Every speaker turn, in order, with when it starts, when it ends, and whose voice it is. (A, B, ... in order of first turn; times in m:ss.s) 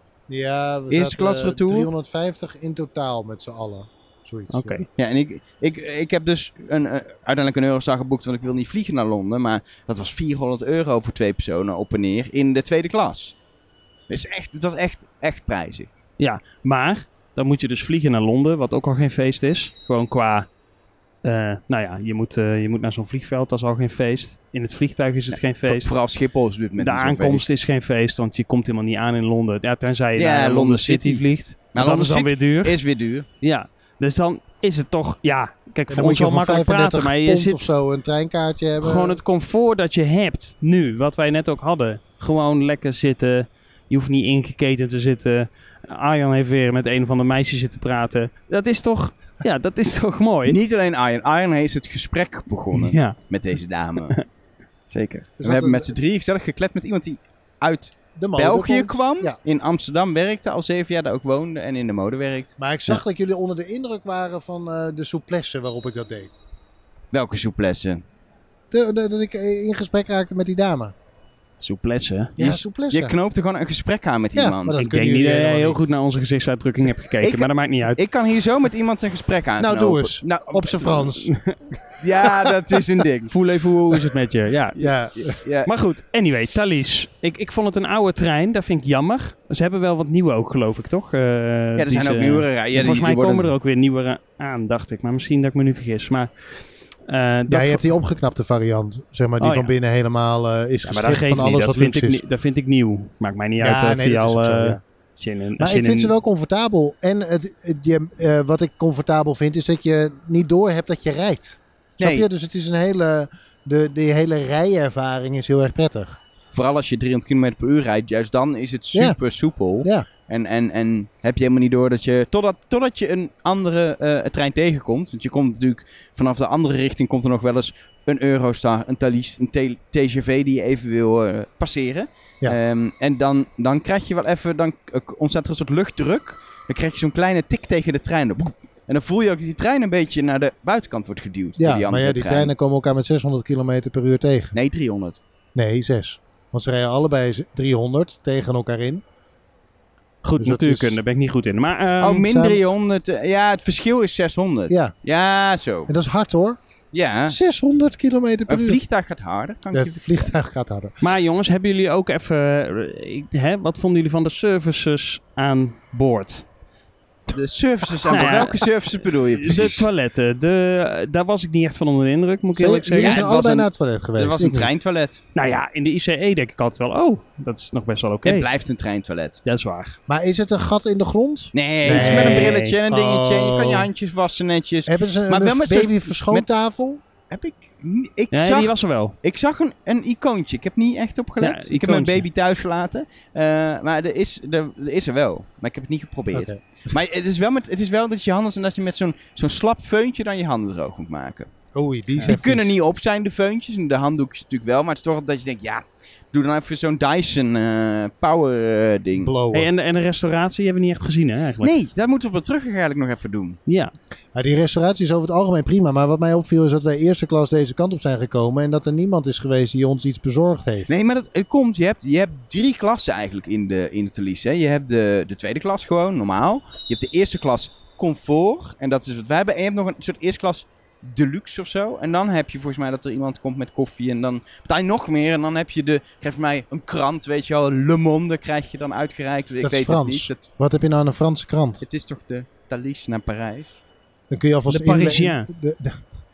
0:00.3-0:04.8 A
0:00.9-0:01.9 B
0:04.5-0:04.9 C
0:05.0-0:13.4 B
0:14.1-0:15.9 B
0:16.2-0:20.5 C
0:21.2-0:26.0 C
0:25.6-0:27.4 B
0:26.8-0:32.8 C
0:30.2-0:33.3 B
0:33.4-0:37.7 C
0:35.9-0:39.2 A
0:38.8-0:50.6 C
0:50.4-0:54.1 B
0:52.7-0:53.2 C
0:54.9-0:55.3 C
0:55.4-0:55.9 A
0:55.4-1:02.5 B
0:58.2-0:59.4 A
1:02.6-1:06.4 A
1:07.1-1:08.0 B
1:08.7-1:10.9 A
1:11.6-1:12.4 C
1:12.4-1:13.2 A
1:12.4-1:14.8 B
1:14.4-1:15.8 A
1:14.8-1:18.0 C
1:17.2-1:21.1 B
1:19.6-1:21.3 A
1:21.2-1:21.6 C
1:22.0-1:23.3 B
1:22.3-1:22.5 A
1:23.3-1:24.8 C
1:24.8-1:25.7 B
1:24.8-1:25.4 A
1:25.6-1:37.9 C
1:31.8-1:33.5 B
1:37.5-1:42.2 A
1:39.4-1:39.7 C
1:40.8-1:46.1 C
1:43.6-1:44.8 A
1:45.6-1:56.2 A
1:52.0-1:52.3 B
1:56.5-2:22.5 B
1:58.9-1:59.2 A
1:59.8-2:00.1 A
2:21.6-2:24.6 A
2:24.5-2:25.2 B
2:25.6-2:29.0 A
2:30.2-2:32.3 C
2:30.4-2:31.0 A
2:32.0-2:35.9 B
2:32.2-2:32.6 A
2:34.7-2:34.9 A
2:35.9-2:36.6 A
2:36.9-2:37.4 B
2:37.3-2:38.8 A
2:38.5-2:40.3 B
2:39.7-2:41.0 A
2:41.0-2:46.4 C
2:47.3-2:49.9 B
2:48.1-2:48.6 C
2:49.4-2:53.3 C
2:52.6-2:54.7 A
2:53.0-2:55.2 B
2:55.4-2:58.5 C
2:58.2-2:59.4 B
2:59.4-3:00.0 C
3:00.1-3:03.9 A
3:01.5-3:06.5 B
3:01.8-3:02.8 C
3:04.9-3:07.0 A
3:07.3-3:21.5 B
3:08.3-3:09.1 C
3:11.4-3:12.2 C
3:16.3-3:16.6 A
3:21.7-3:22.7 A
3:22.2-3:29.3 B
3:29.1-3:29.7 A
3:29.5-3:31.7 C
3:31.6-3:33.6 B
3:33.7-3:33.9 C
3:34.3-3:40.9 A
3:40.9-4:00.5 B
3:59.6-4:01.8 A
4:01.8-4:03.8 B
4:04.3-4:06.0 A
4:04.7-4:05.5 C